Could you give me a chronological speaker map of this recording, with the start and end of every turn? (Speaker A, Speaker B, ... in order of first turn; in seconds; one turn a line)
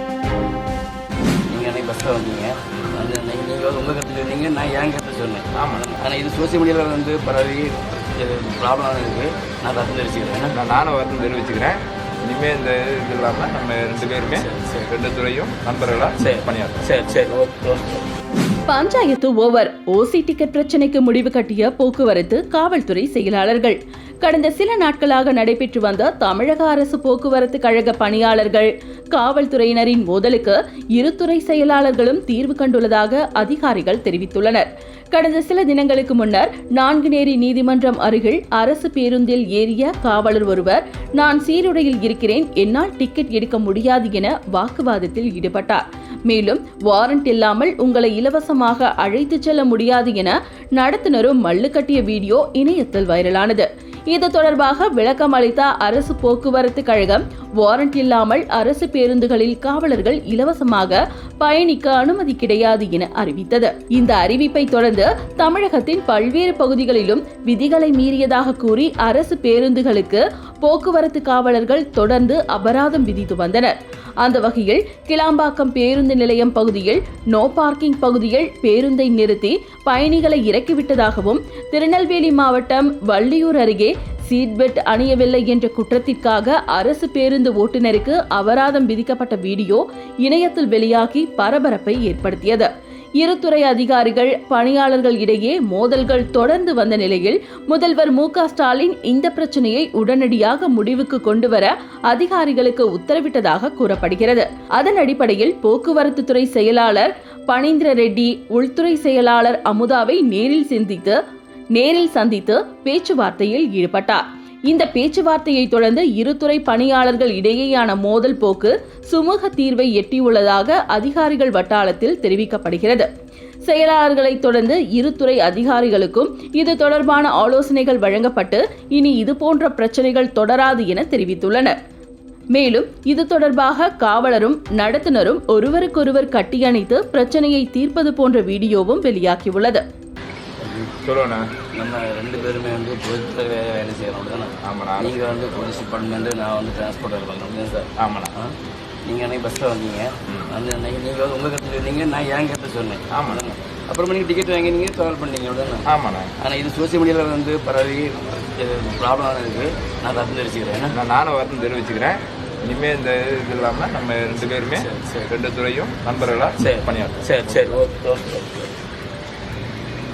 Speaker A: 1.5-10.6
Speaker B: 5.5-5.9
Speaker B: 10.5-17.3
Speaker A: 14.1-14.9
Speaker A: 16.2-18.1
Speaker C: 18.7-111.2
Speaker C: 111.8-123.1
Speaker C: 123.7-131.8
Speaker C: 132.5-139.8
Speaker A: 140.6-140.9
Speaker B: 141.0-141.5
Speaker A: 141.8-148.6
Speaker B: 144.6-145.2
Speaker B: 148.0-148.3
Speaker A: 149.1-161.0
Speaker B: 153.1-153.4
Speaker B: 155.8-156.3
Speaker B: 160.9-167.8
Speaker A: 164.6-165.3
Speaker A: 166.6-168.8